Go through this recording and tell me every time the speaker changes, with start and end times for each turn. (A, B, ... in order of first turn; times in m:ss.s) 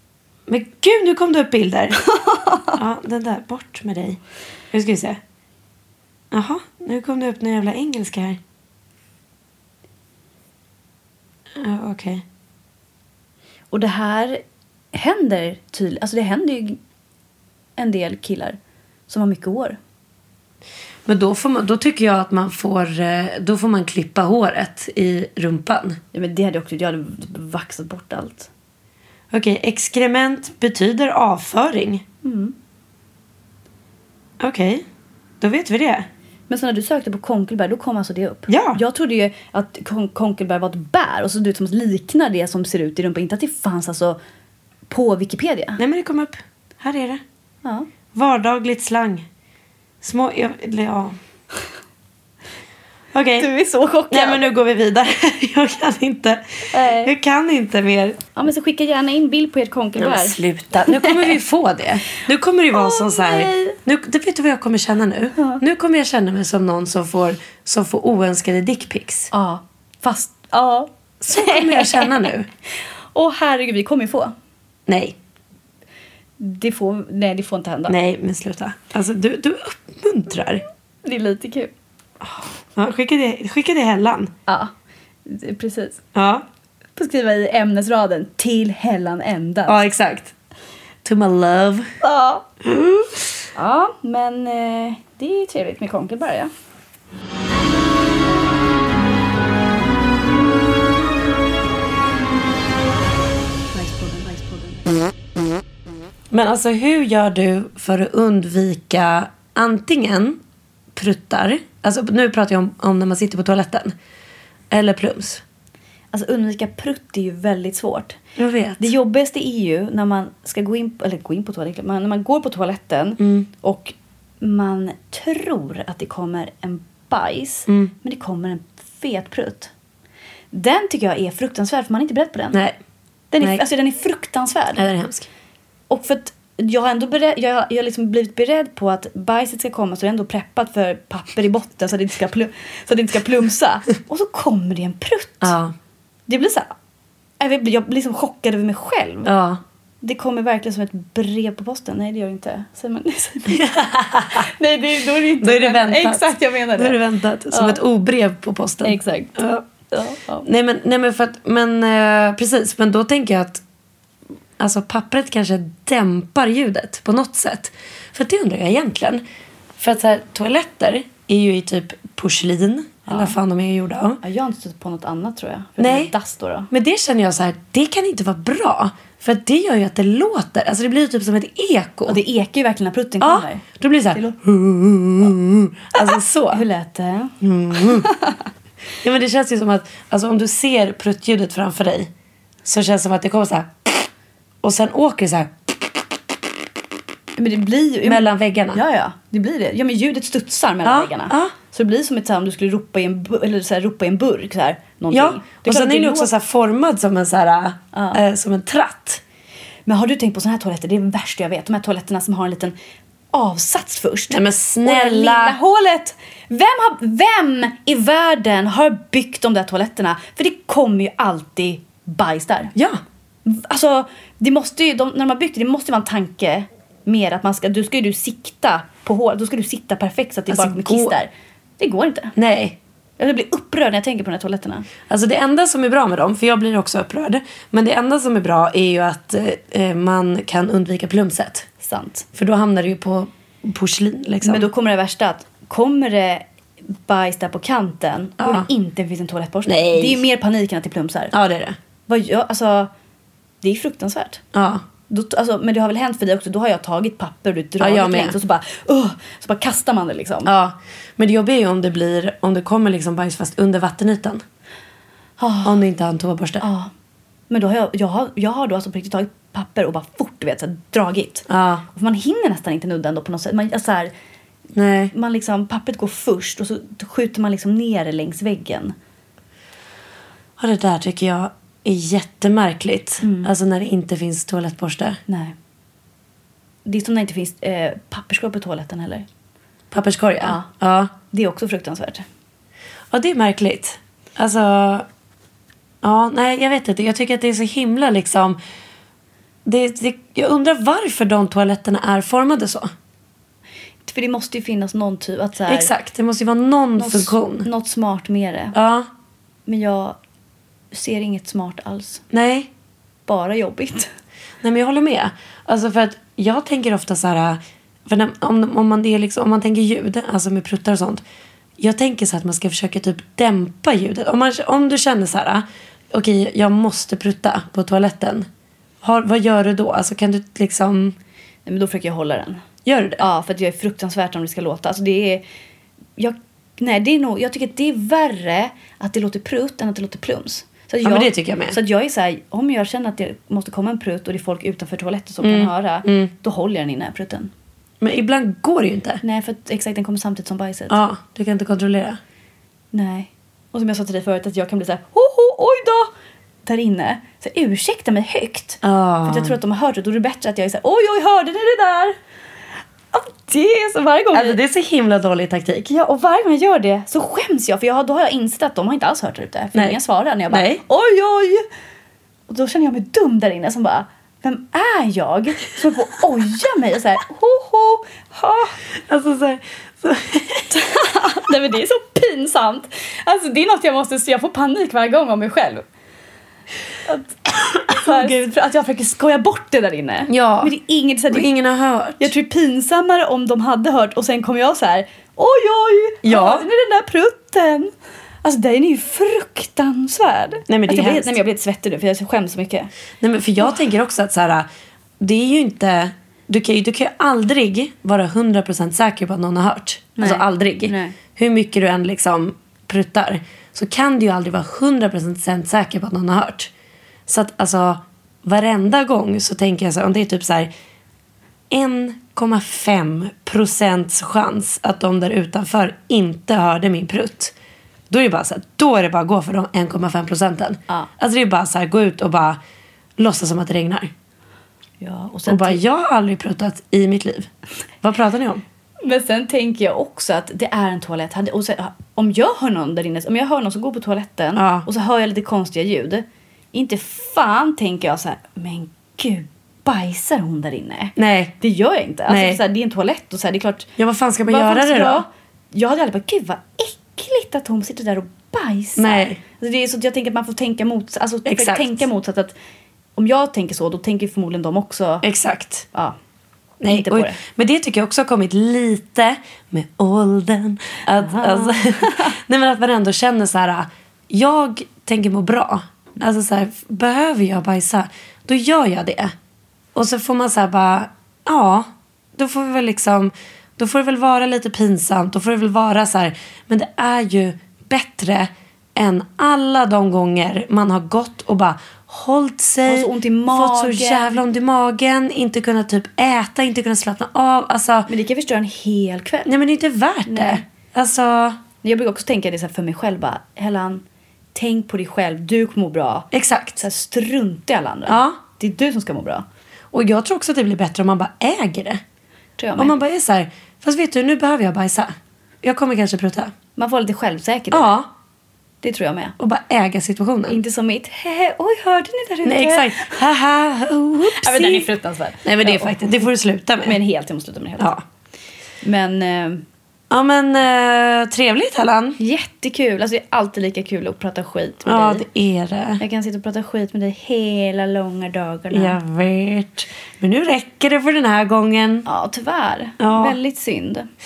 0:00.5-0:02.0 A
0:02.1-0:02.7 B
0:02.7-0:04.2 A
0:04.7-0:05.2 A
0:06.3-0:08.4 A
0:11.6-0:12.2 A
0:13.7-0:14.4 B
0:14.9-0:16.8 B
0:17.8-0:18.6 B
0:19.1-0:19.8 B
0:21.1-0:26.0 A
0:26.1-0:28.5 B
0:29.3-0:32.0 A
0:32.2-0:32.5 B
0:34.4-0:34.8 A
0:35.4-0:36.1 A
0:36.5-0:44.2 B
0:38.5-0:38.8 A
0:44.9-0:45.8 B
0:45.8-0:47.2 A
0:48.1-0:49.3 A
0:50.0-0:51.2 A
0:53.1-0:53.5 A
0:53.4-0:54.5 B
0:54.1-0:58.2 A
0:56.7-0:57.1 B
0:58.4-1:01.4 B
1:00.0-1:09.3 A
1:02.7-1:03.8 B
1:09.3-1:12.3 B
1:11.2-1:12.5 A
1:13.1-1:14.3 B
1:14.9-1:15.2 A
1:16.4-1:18.0 B
1:17.9-1:20.6 A
1:21.0-1:21.7 B
1:22.2-1:24.3 A
1:25.3-1:26.0 B
1:26.1-1:26.4 A
1:27.0-1:29.8 B
1:29.7-1:30.3 A
1:31.0-1:31.9 A
1:32.0-1:32.4 B
1:32.6-1:33.1 A
1:33.6-1:36.5 B
1:43.7-1:44.9 B
1:46.3-1:50.4 A
1:50.9-1:54.0 A
1:54.7-1:55.4 A
1:56.1-1:58.2 B
1:58.4-1:58.9 A
1:58.8-2:09.7 B
2:03.2-2:03.5 A
2:07.7-2:07.9 A
2:10.5-2:12.6 B
2:12.5-2:12.8 A
2:13.3-2:14.9 B
2:14.8-2:15.3 A
2:15.9-2:25.5 B
2:25.4-2:25.8 A
2:26.3-2:26.7 B
2:27.4-2:29.3 B
2:29.2-2:29.6 A
2:30.0-2:33.8 B
2:33.5-2:34.5 A
2:34.3-2:37.8 B
2:35.4-2:39.6 A
2:38.8-2:40.5 B
2:40.4-2:43.6 A
2:44.6-2:49.2 A
2:49.8-2:54.2 A
2:53.1-2:53.4 B
2:54.2-2:56.7 B
2:55.8-2:56.1 A
2:56.7-3:02.2 A
3:02.1-3:04.4 B
3:03.2-3:06.6 A
3:06.0-3:08.4 B
3:07.4-3:08.1 A
3:09.0-3:12.1 A
3:12.6-3:14.0 A
3:14.6-3:15.5 A
3:17.4-3:26.4 B
3:18.0-3:18.8 A
3:20.8-3:21.5 A
3:25.1-3:29.2 A
3:27.9-3:28.2 B
3:29.9-3:32.7 B
3:33.3-3:42.7 B
3:34.3-3:35.6 A
3:42.8-3:43.0 A
3:43.4-3:52.3 B
3:50.5-3:51.2 A
3:52.4-3:52.8 A
3:53.2-3:54.9 B
3:55.1-4:01.7 A
4:01.8-4:02.3 B
4:02.4-4:04.7 A
4:04.4-4:06.4 B
4:07.1-4:11.3 B
4:08.4-4:08.7 A
4:09.7-4:10.2 A
4:11.3-4:11.8 A
4:12.1-4:12.9 B
4:13.6-4:14.4 B
4:14.5-4:14.8 A
4:15.1-4:20.5 B
4:17.8-4:18.4 A
4:20.4-4:24.4 A
4:25.4-4:25.8 B
4:25.6-4:26.6 A
4:26.6-4:26.9 B
4:27.5-4:34.1 B
4:31.5-4:31.8 A
4:34.8-4:35.1 A
4:35.1-4:38.9 B
4:40.6-4:45.2 A
4:43.2-4:43.5 B
4:45.3-4:45.6 B
4:46.8-4:49.3 B
4:49.9-4:51.1 A
4:50.4-4:50.7 B
4:51.3-4:52.2 B
4:53.1-4:55.1 A
4:56.0-4:58.6 A
4:59.6-5:02.9 A
5:04.0-5:05.9 B
5:05.7-5:07.7 A
5:07.0-5:08.8 B
5:08.7-5:09.1 A
5:09.7-5:10.2 B
5:10.9-5:12.2 B
5:12.3-5:12.7 A
5:13.3-5:14.1 B
5:14.6-5:21.2 A
5:21.8-5:28.5 A
5:29.0-5:31.2 A
5:31.7-5:32.6 B
5:32.8-5:33.2 A
5:33.2-5:35.4 B
5:36.2-5:47.5 B
5:41.0-5:41.8 A
5:45.4-5:46.3 A
5:48.0-5:49.2 A
5:49.2-5:51.0 B
5:50.9-5:52.2 A
5:52.9-5:56.1 B
5:56.6-6:02.2 B
5:58.8-5:59.6 A
6:03.1-6:04.6 B
6:04.3-6:05.9 A
6:05.9-6:11.7 B
6:10.5-6:10.8 A
6:12.5-6:18.8 B
6:19.1-6:20.7 A
6:20.7-6:25.8 B
6:27.1-6:31.5 B
6:27.8-6:28.4 A
6:30.3-6:30.7 A
6:31.3-6:32.3 A
6:32.2-6:37.9 B
6:36.2-6:36.7 A
6:38.4-6:42.9 B
6:40.7-6:41.4 A
6:43.2-6:44.7 A
6:45.2-6:56.7 A
6:50.2-6:51.2 B
6:57.3-7:00.7 A
7:01.7-7:07.5 A
7:08.1-7:12.6 A
7:13.2-7:14.1 A
7:15.0-7:15.8 B
7:15.5-7:17.5 A
7:18.0-7:18.6 A
7:19.0-7:33.9 B
7:24.6-7:24.9 A
7:31.2-7:31.6 A
7:32.3-7:32.6 A
7:34.0-7:35.2 A
7:34.5-7:42.5 B
7:39.0-7:39.4 A
7:41.4-7:42.1 A
7:43.2-7:45.2 B
7:45.2-7:45.9 A
7:46.8-7:59.4 A
7:46.9-7:47.4 B
7:51.2-7:52.3 B
8:00.0-8:18.1 A
8:12.8-8:14.4 B
8:18.1-8:19.5 B
8:19.5-8:21.6 A
8:20.3-8:20.6 B
8:21.8-8:24.0 B
8:24.6-8:26.3 B
8:26.3-8:26.8 A
8:26.8-8:29.4 B
8:28.1-8:28.4 A
8:29.9-8:32.0 A
8:32.6-8:33.0 B
8:32.8-8:36.5 A
8:36.8-8:37.9 B
8:37.7-8:38.1 A
8:38.8-8:39.4 B
8:39.4-8:40.6 A
8:40.5-8:43.2 B
8:42.4-8:44.9 A
8:44.2-8:46.3 B
8:45.4-8:47.0 A
8:46.8-8:47.9 B
8:47.8-8:48.0 A
8:48.8-8:49.6 B
8:50.1-8:52.2 A
8:52.2-8:55.2 B
8:54.8-8:56.0 A
8:56.0-8:59.0 B
8:58.7-9:02.1 A
9:02.0-9:04.1 B
9:03.0-9:03.4 A